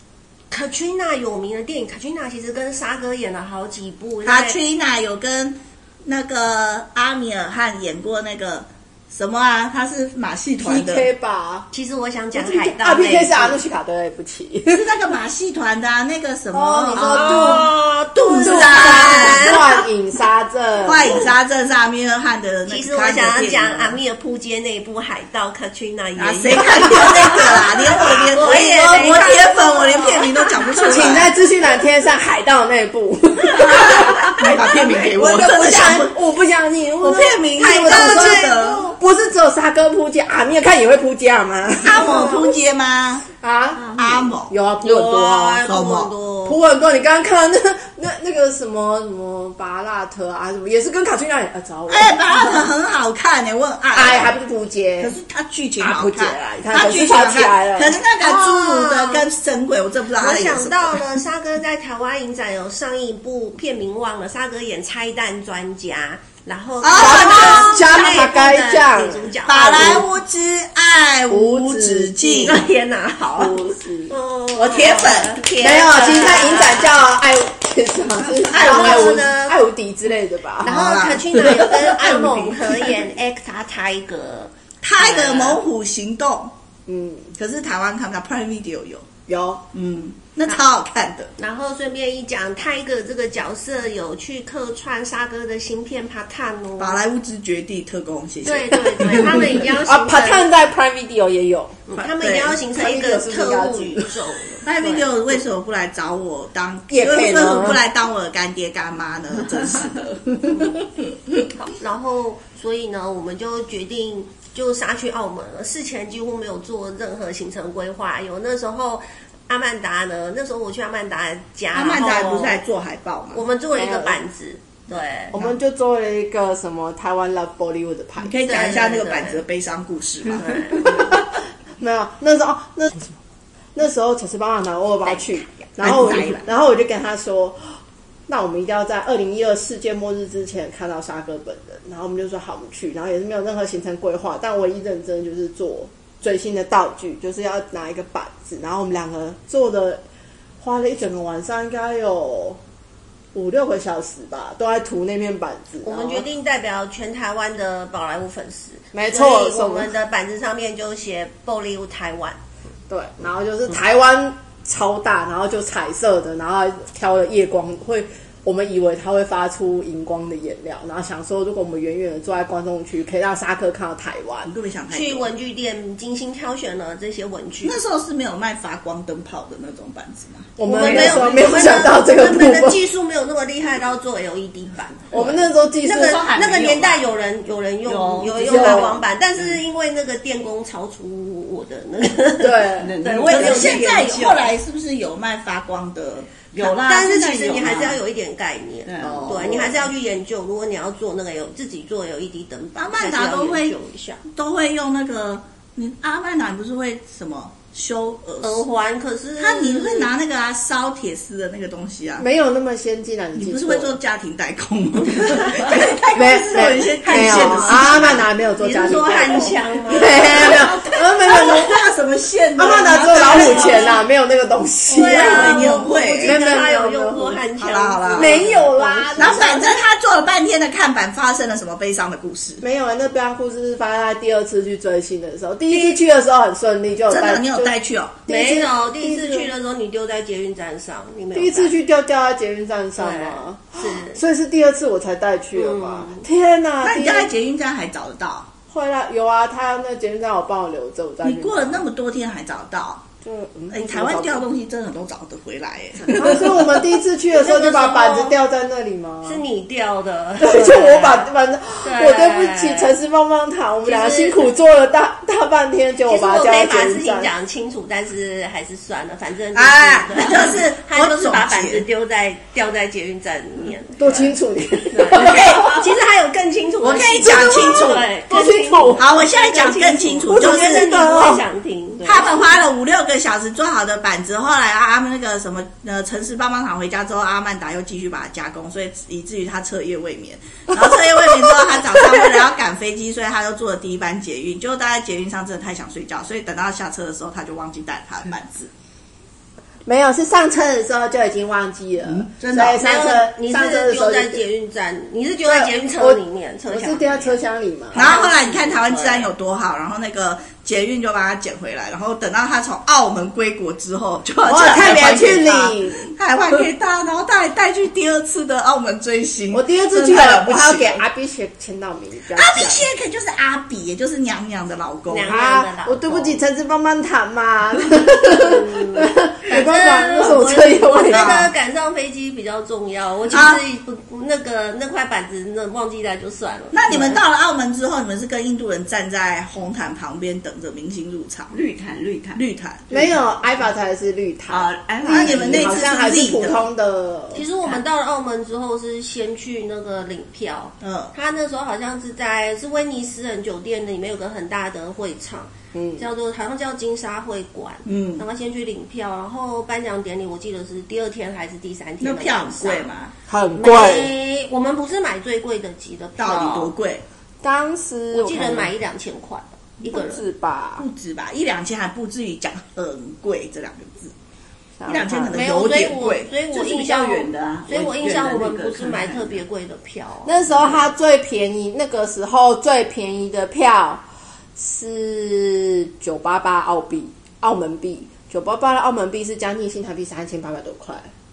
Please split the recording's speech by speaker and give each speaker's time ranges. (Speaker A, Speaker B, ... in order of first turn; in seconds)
Speaker A: 0.5-4.6, 11.7-13.6, 16.9-19.6, 22.7-31.1, 33.6-34.5, 37.6-38.9, 44.8-46.6, 58.2-59.2, 60.2-70.0, 72.5-77.0, 78.5-79.5, 80.6-85.6, 91.4-97.0, 98.4-100.5, 101.9-105.1, 111.5-122.6, 123.3-125.3, 128.4-129.4, 130.3-131.1, 135.0-135.6, 155.8-162.4, 174.9-177.8, 180.6-194.3, 196.6-204.2, 208.4-210.1, 217.0-220.7, 223.1-224.0, 224.9-229.7, 235.7-236.0, 238.3-241.7, 243.0-244.2, 245.5-246.2, 257.3-258.4, 259.2-261.3, 261.8-262.9, 263.8-264.5, 266.1-274.3, 274.9-282.4, 302.8-307.4, 307.9-309.3, 325.1-326.4, 328.3-337.2, 347.3-362.9, 363.6-366.7, 368.1-370.2, 375.3-380.8
Speaker B: 4.2-11.1, 14.7-19.7, 20.8-24.0, 26.2-31.3, 33.8-36.1, 37.0-39.0, 41.8-43.3, 43.9-44.5, 45.7-46.1, 51.9-54.3, 55.0-61.2, 66.8-67.9, 69.5-72.6, 74.5-76.3, 78.3-79.2, 80.6-83.0, 84.8-86.5, 87.4-89.1, 89.7-91.3, 96.8-99.6, 102.0-102.6, 104.7-111.4, 121.7-123.4, 128.2-130.8, 135.8-136.4, 174.4-175.3, 177.6-181.0, 186.5-186.8, 193.2-196.5, 202.8-203.7, 204.3-208.6, 209.4-212.3, 213.3-218.2, 220.0-224.0, 225.0-226.4, 227.6-228.5, 229.2-232.6, 237.1-238.2, 246.8-248.5, 251.2-253.0, 253.7-256.8, 269.5-271.9, 275.1-275.8, 276.8-278.1, 278.9-280.9, 282.0-298.7, 302.0-302.9, 307.9-321.0, 322.3-325.3, 331.1-331.5, 333.3-333.6, 336.7-341.6, 342.3-342.8, 345.1-346.6, 350.8-351.1, 357.8-358.2, 362.0-363.1, 366.2-367.0, 370.8-374.1, 374.9-376.3
Speaker C: 10.6-11.7, 12.3-15.0, 16.5-17.7, 18.4-21.3, 30.8-42.5, 43.4-45.6, 46.5-52.7, 53.9-55.1, 55.8-58.0, 67.0-70.0, 71.3-72.7, 73.3-74.1, 75.6-80.8, 86.9-87.3, 89.3-89.6, 99.2-101.9, 102.7-104.2, 106.9-107.8, 123.7-124.2, 125.3-128.3, 130.8-133.2, 133.8-150.0, 150.6-152.6, 153.3-156.2, 158.9-159.9, 162.9-174.5, 180.6-182.8, 185.1-186.3, 188.4-189.0, 192.4-193.0, 199.0-199.7, 212.2-213.9, 216.1-221.7, 222.6-227.4, 228.1-229.8, 232.6-237.7, 238.3-239.5, 241.3-247.3, 248.7-251.8, 253.2-254.4, 256.1-259.4, 260.4-267.3, 274.0-275.8, 277.3-279.7, 280.3-281.4, 299.9-304.4, 305.4-308.1, 314.4-316.1, 319.5-322.9, 325.3-331.4, 342.9-347.5, 355.7-356.0, 363.3-364.1, 367.4-368.7, 369.8-370.8, 374.8-375.4, 380.2-384.0, 384.6-391.1
Speaker D: 180.8-181.3, 186.2-187.0, 187.8-189.6, 192.8-194.5, 196.5-198.0, 198.8-199.6, 341.5-343.1, 344.5-345.8, 376.5-379.4